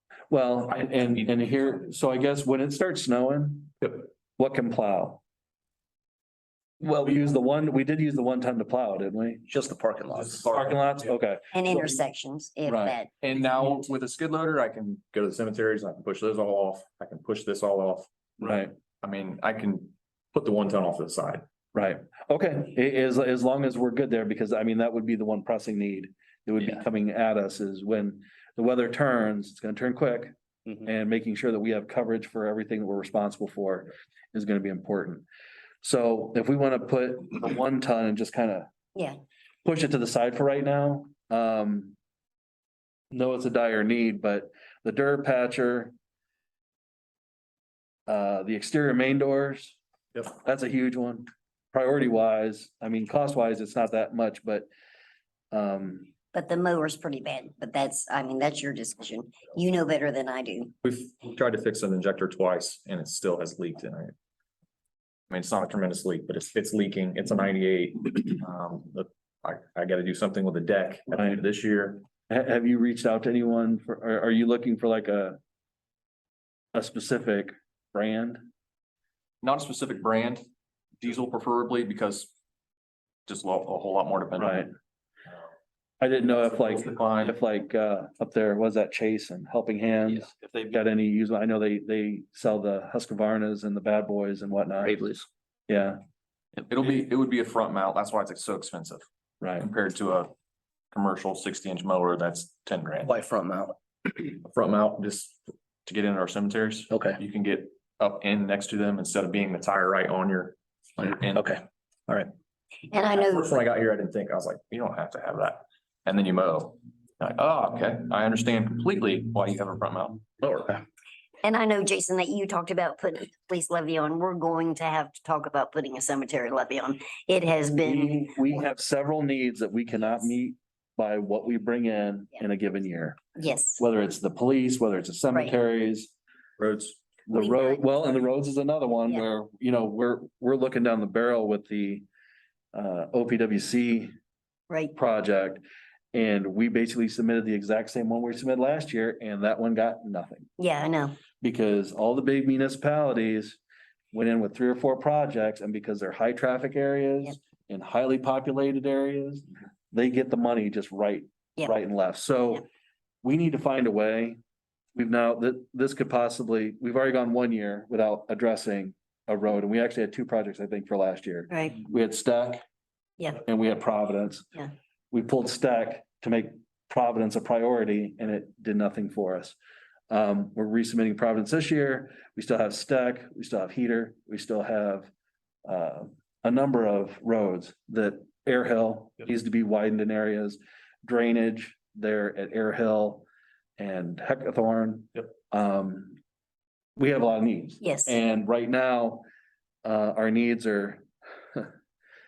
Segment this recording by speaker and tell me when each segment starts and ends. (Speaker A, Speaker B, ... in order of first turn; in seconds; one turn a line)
Speaker A: 0.3-5.2
Speaker A: 6.8-9.4
Speaker B: 9.5-10.6
Speaker C: 10.2-10.8
Speaker A: 10.5-11.8
Speaker D: 11.5-13.1
Speaker A: 12.7-13.0
Speaker C: 13.2-18.1
Speaker A: 18.4-18.7
Speaker C: 19.0-21.4
Speaker A: 21.7-35.2
Speaker A: 35.8-38.7
Speaker D: 38.9-39.2
Speaker A: 39.6-42.0
Speaker A: 43.1-45.9
Speaker A: 48.1-49.8
Speaker A: 50.3-54.7
Speaker A: 55.5-56.1
Speaker D: 56.3-60.7
Speaker C: 60.8-64.1
Speaker C: 65.3-72.0
Speaker A: 71.1-71.4
Speaker A: 72.3-75.4
Speaker A: 76.7-78.5
Speaker C: 79.4-80.4
Speaker C: 81.0-82.3
Speaker C: 83.3-84.7
Speaker A: 84.4-84.7
Speaker A: 86.0-95.0
Speaker C: 86.2-87.4
Speaker B: 94.8-95.3
Speaker A: 95.7-96.0
Speaker C: 96.7-99.0
Speaker A: 99.4-99.7
Speaker C: 99.6-100.3
Speaker C: 100.9-103.1
Speaker B: 103.0-103.8
Speaker C: 104.3-111.5
Speaker B: 106.9-107.2
Speaker B: 111.3-112.3
Speaker D: 112.9-113.5
Speaker C: 113.1-120.8
Speaker D: 121.4-128.6
Speaker A: 127.8-133.2
Speaker D: 133.3-133.8
Speaker A: 133.8-136.1
Speaker C: 136.6-137.0
Speaker A: 137.3-142.0
Speaker D: 137.3-137.8
Speaker A: 142.7-144.1
Speaker A: 144.9-150.5
Speaker D: 150.6-151.2
Speaker A: 151.4-153.6
Speaker A: 154.1-162.6
Speaker A: 163.2-164.4
Speaker A: 164.9-172.6
Speaker D: 171.5-171.8
Speaker A: 173.4-174.6
Speaker A: 175.1-179.6
Speaker A: 180.1-185.1
Speaker A: 185.6-193.2
Speaker A: 193.8-196.2
Speaker A: 196.9-199.2
Speaker D: 197.8-198.2
Speaker A: 199.8-201.7